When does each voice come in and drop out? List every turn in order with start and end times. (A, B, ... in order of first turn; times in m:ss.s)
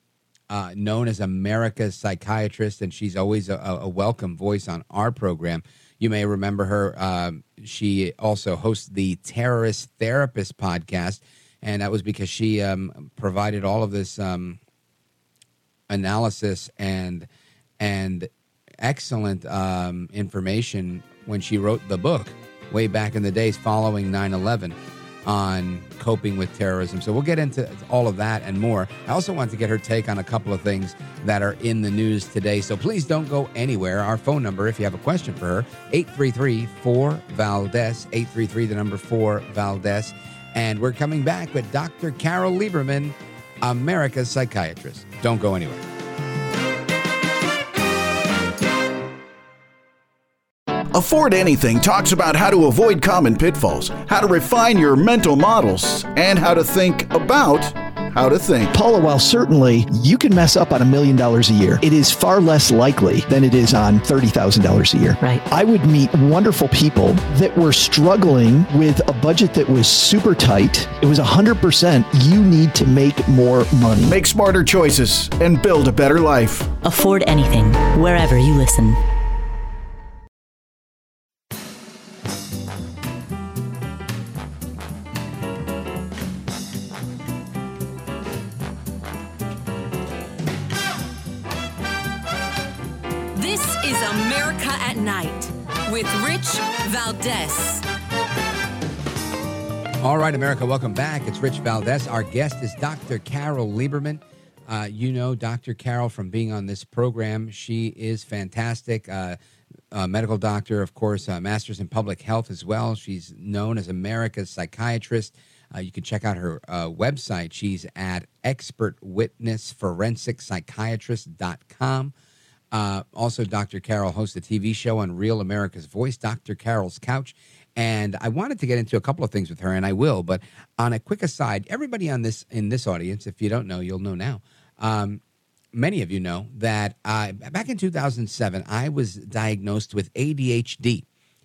0:00.5-0:14.6 A
0:15.9-0:17.3 A
0:17.8-0:18.3 A
0:18.8-0:45.8 A
0:50.9-0:58.8 B
0:58.7-1:14.2 C
1:14.1-1:16.8 B
1:16.8-1:19.0 D
1:33.4-1:37.8 E
1:40.0-1:49.4 A
1:49.9-2:02.1 A
2:02.7-2:15.2 A
2:15.7-2:21.0 A